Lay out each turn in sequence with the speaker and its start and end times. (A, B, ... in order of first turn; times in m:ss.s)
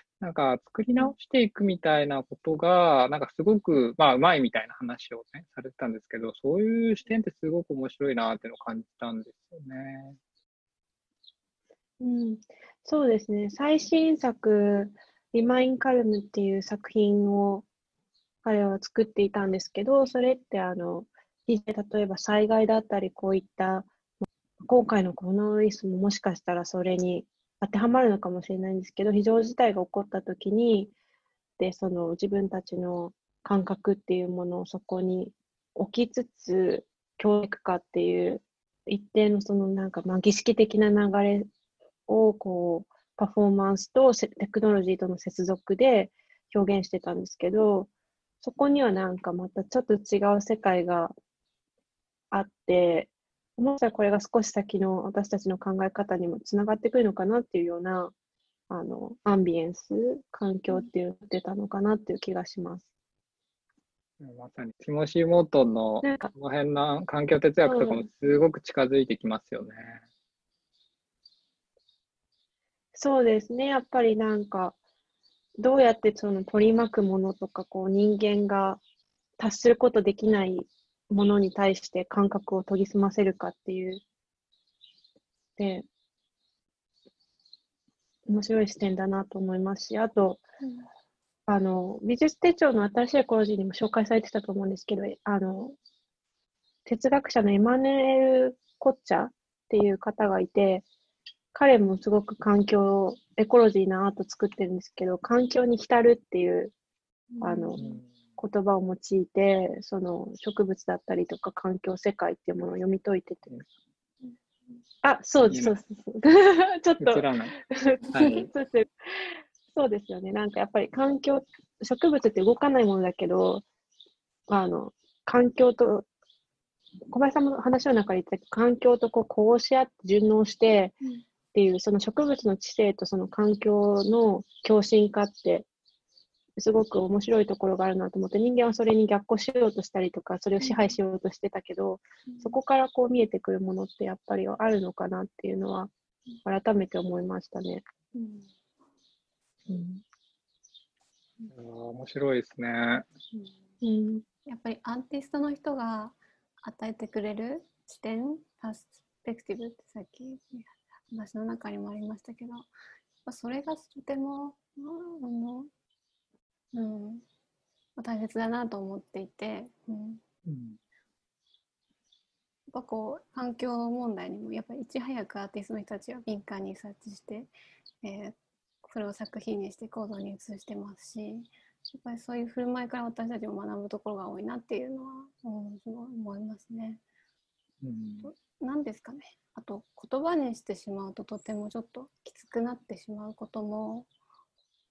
0:00.2-0:10.2 A
0:12.0-0:17.6 B
0:18.4-0:23.9 B
0:24.7-0:30.9 B
0:31.6-0:41.5 B
0:42.1-0:47.9 B
0:48.4-0:51.1 B
0:52.3-0:58.1 B
0:58.7-1:02.8 B
1:04.2-1:10.0 A
1:06.0-1:06.3 B
1:07.6-1:08.0 B
1:12.9-1:14.8 B
1:15.6-1:18.8 B
1:19.4-1:24.0 B
1:25.6-1:25.8 B
1:28.3-1:30.4 B
1:30.6-1:30.9 C
1:31.5-1:35.8 B
1:36.8-1:40.8 B
1:41.5-1:46.7 B
1:47.3-1:48.0 C
1:47.4-1:47.8 B
1:47.8-1:48.1 A
1:48.4-1:53.5 B
1:55.0-1:58.9 B
1:55.4-1:55.8 A
1:57.0-1:57.6 A
1:58.1-1:58.5 A
1:59.7-2:03.6 B
2:04.5-2:06.1 B
2:07.1-2:11.0 B
2:11.5-2:15.6 B
2:16.6-2:25.9 B
2:20.6-2:21.0 C
2:22.3-2:22.6 C
2:26.4-2:27.8 B
2:28.1-2:28.5 C
2:31.5-2:33.0 A
2:33.8-2:34.2 B
2:34.4-2:42.7 C
2:43.2-2:45.7 C
2:46.7-2:47.2 C
2:48.0-2:50.2 C
2:50.5-2:50.8 A
2:52.7-3:07.0 C
3:07.8-3:08.3 A
3:08.2-3:14.1 C